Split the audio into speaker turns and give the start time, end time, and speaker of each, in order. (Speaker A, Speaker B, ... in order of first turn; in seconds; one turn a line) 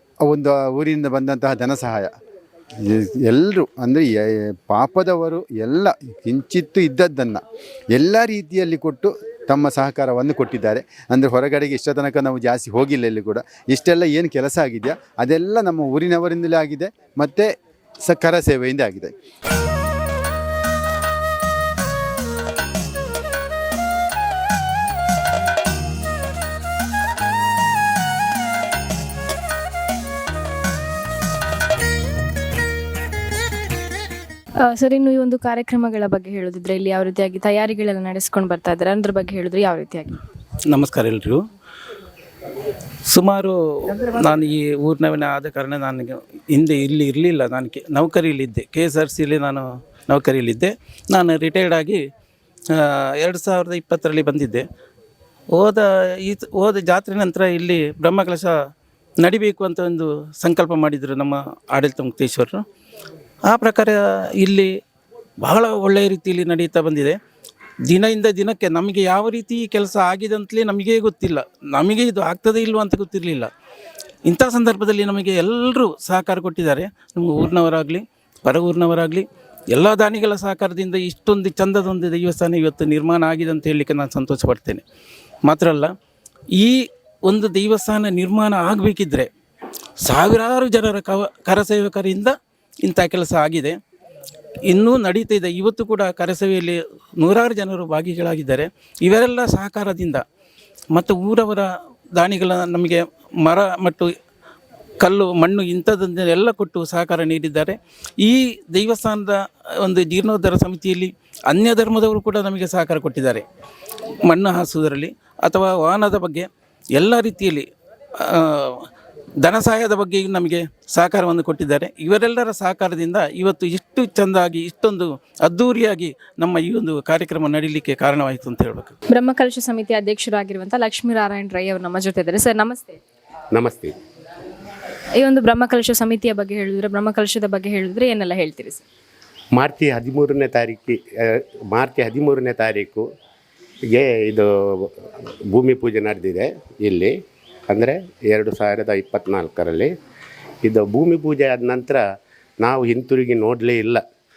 Speaker A: 0.2-2.1
Speaker A: 2.8-7.4
Speaker A: 7.9-17.5
Speaker A: 18.1-19.1
Speaker B: 34.6-40.2
Speaker C: 40.7-41.4
Speaker C: 43.1-52.0
Speaker C: 52.7-54.6
Speaker C: 55.5-58.5
Speaker C: 59.2-62.6
Speaker C: 63.5-64.7
Speaker C: 65.4-67.2
Speaker C: 67.9-73.5
Speaker C: 74.3-84.8
Speaker C: 85.5-85.9
Speaker C: 86.6-89.3
Speaker C: 90.0-93.8
Speaker C: 94.7-100.2
Speaker C: 100.9-104.2
Speaker C: 105.0-113.5
Speaker C: 114.3-117.7
Speaker C: 118.2-118.9
Speaker C: 119.4-128.9
Speaker B: 129.1-133.0
Speaker D: 133.5-133.9
Speaker B: 135.2-138.8
Speaker D: 139.6-143.1
Speaker D: 143.9-147.2
Speaker D: 147.7-149.9
Speaker D: 150.7-152.0
Speaker D: 152.6-154.0